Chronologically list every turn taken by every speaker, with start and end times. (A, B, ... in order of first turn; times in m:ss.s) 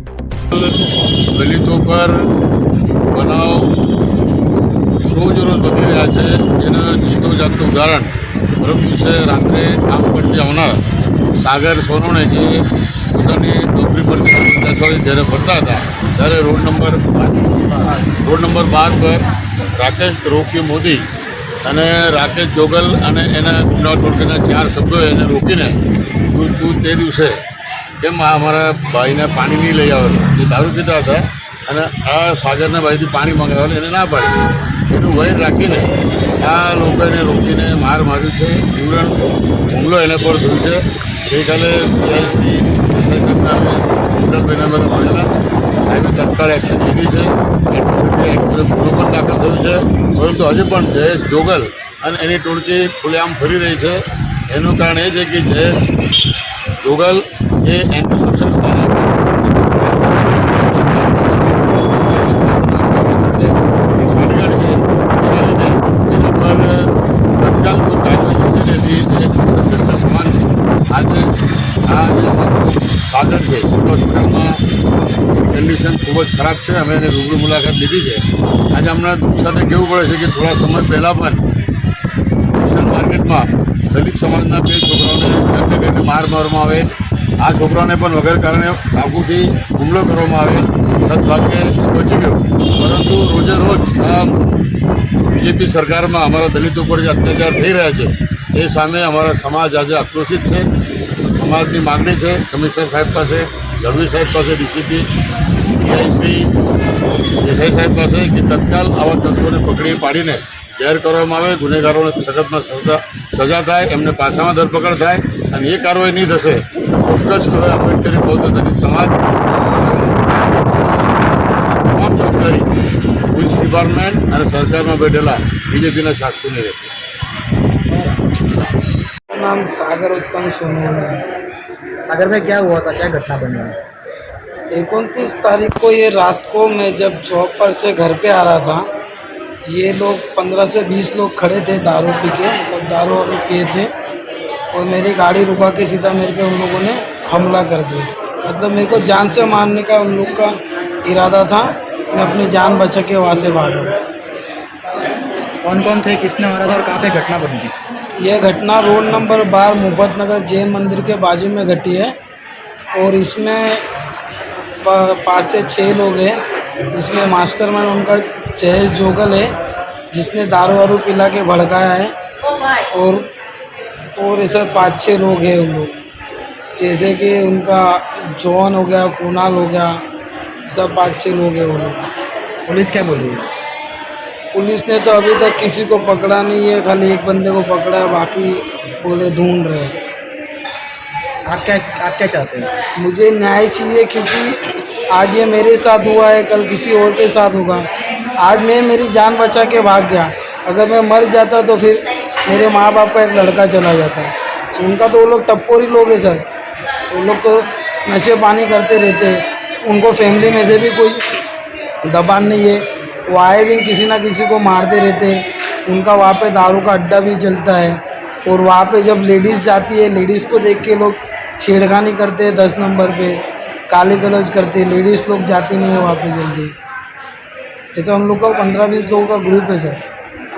0:00.5-0:00.8 A
0:01.3-0:02.2 A
0:03.1-0:03.7 A
0:05.1-0:10.8 A
0:11.4-0:19.2 A
0:19.8-0:21.0 A
0:21.6-0:25.8 A
0:26.3-0:27.4 A
0:28.0-0:35.9 A
0:36.4-0:45.3 A
0:45.9-0:55.8 A
0:56.8-1:11.3 A
1:11.9-1:14.6 A
1:15.5-1:21.4 A
1:22.6-1:26.9 A
1:27.4-1:34.4 A
1:35.3-1:45.1 A
1:45.8-1:46.5 A
1:47.4-2:02.7 A
2:03.3-2:06.9 A
2:07.9-2:08.2 B
2:09.3-2:11.2 C
2:12.0-2:13.8 B
2:14.7-2:18.9 C
2:19.7-2:23.9 C
2:24.7-2:34.0 C
2:35.6-2:37.7 B
2:38.2-2:42.1 C
2:42.9-2:43.8 C
2:44.8-2:46.4 C
2:46.9-2:49.5 C
2:50.1-2:52.1 C
2:52.9-2:53.3 C
2:54.2-2:55.9 C
2:56.8-3:00.0 C
3:00.7-3:02.1 C
3:02.7-3:03.5 B
3:04.5-3:10.0 C
3:11.4-3:12.7 B
3:13.0-3:14.6 C
3:15.1-3:26.4 C
3:27.1-3:31.4 C
3:32.0-3:46.7 C
3:47.9-3:50.0 C